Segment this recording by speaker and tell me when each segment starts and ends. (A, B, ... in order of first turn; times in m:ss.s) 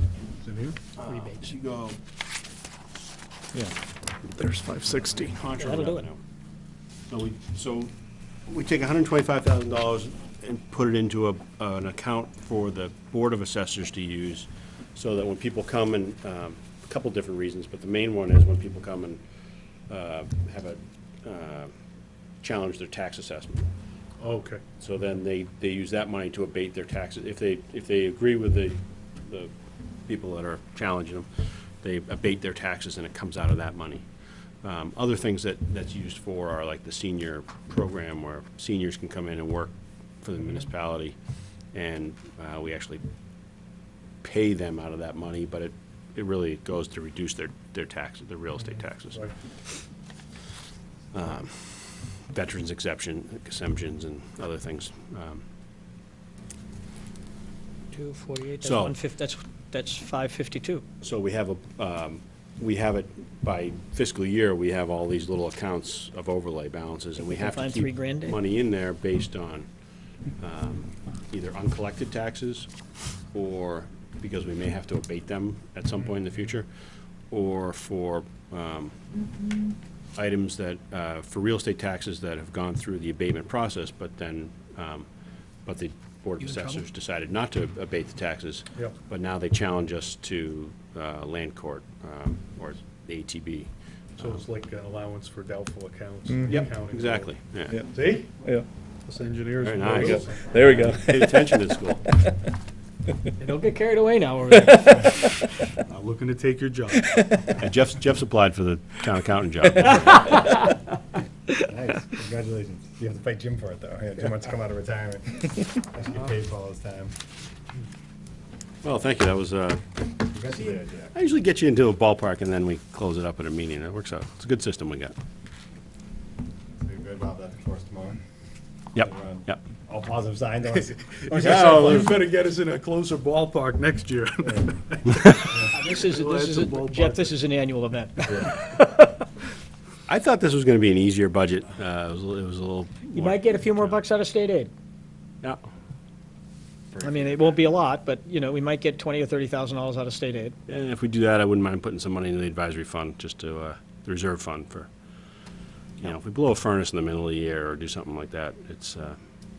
0:00.4-0:00.8 A
0:01.0-0:02.0 B
0:01.0-0:01.6 C
0:04.3-0:05.4 D
0:05.1-0:06.2 B
0:05.6-0:06.1 C
0:07.1-0:07.9 B
0:08.5-0:19.2 B
0:19.9-0:21.7 B
0:22.4-0:23.7 B
0:24.2-0:24.6 A
0:24.8-0:29.5 B
0:30.1-0:31.3 B
0:31.8-0:34.0 B
0:34.6-0:41.2 B
0:41.7-0:43.0 B
0:44.2-0:49.2 B
0:51.1-0:55.4 B
0:57.9-1:00.8 C
0:58.6-0:59.0 B
1:01.0-1:09.7 B
1:07.2-1:08.4 C
1:10.4-1:12.7 B
1:13.3-1:16.7 B
1:17.3-1:18.9 B
1:20.2-1:25.1 B
1:25.6-1:34.4 B
1:26.4-1:26.8 C
1:34.2-1:37.3 A
1:36.3-1:36.6 D
1:36.5-1:37.8 B
1:37.7-1:38.6 D
1:37.8-1:38.5 A
1:39.0-1:40.9 A
1:39.6-1:42.0 B
1:40.0-1:41.5 D
1:43.4-1:45.1 C
1:44.7-1:45.2 D
1:45.8-1:47.6 A
1:47.6-1:50.3 B
1:49.9-1:50.8 C
1:51.6-1:57.1 E
1:58.8-2:00.3 B
2:00.3-2:01.1 E
2:01.1-2:05.1 B
2:06.8-2:08.2 E
2:08.9-2:09.6 B
2:09.0-2:12.0 E
2:11.3-2:12.2 B
2:11.3-2:17.4 A
2:15.6-2:18.8 C
2:20.1-2:24.0 B
2:23.1-2:24.7 C
2:26.9-2:27.7 B
2:27.0-2:30.6 C
2:30.7-2:34.9 B
2:36.0-2:39.2 B